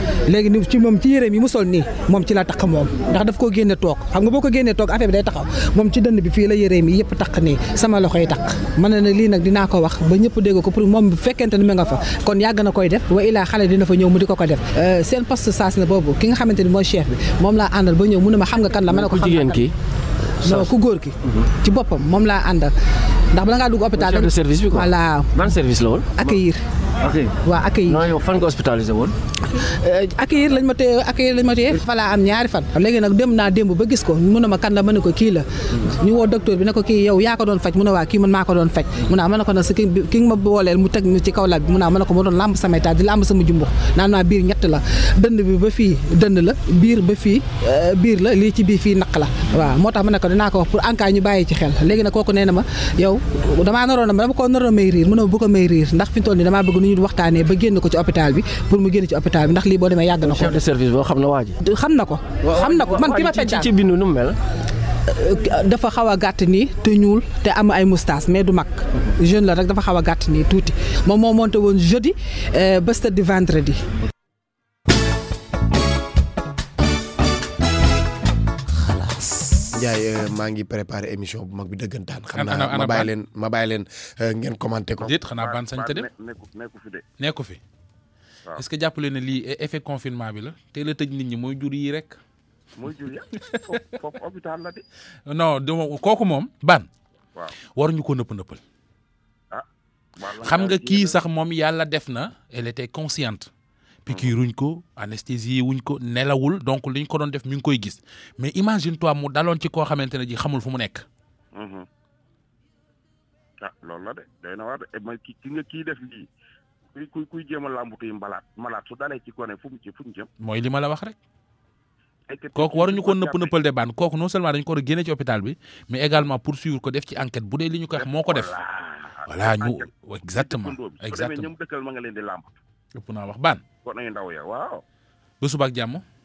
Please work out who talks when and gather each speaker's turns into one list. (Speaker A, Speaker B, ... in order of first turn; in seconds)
Speaker A: 0.3-19.7, 20.4-22.7, 23.3-25.5, 26.1-26.6, 27.4-28.1, 29.6-60.6, 61.6-63.7, 65.1-73.8
Speaker B: 18.9-19.7, 20.4-21.5, 23.9-26.4, 27.0-29.1, 60.2-61.6, 62.4-64.4
Speaker C: 79.7-85.1
Speaker D: 82.3-83.1, 85.0-86.1, 87.2-87.6, 88.6-92.2, 93.5-93.8, 95.3-96.9, 97.7-98.6, 100.4-103.5, 104.1-111.1, 120.4-121.2, 122.5-128.5, 129.3-131.5, 132.9-133.6, 135.4-136.0
Speaker E: 85.0-87.0, 92.8-94.8, 97.3-97.6, 100.2-101.2, 104.1-104.3, 111.5-111.9, 113.6-116.3, 117.0-120.3, 122.3-123.5, 128.0-132.5, 133.8-134.8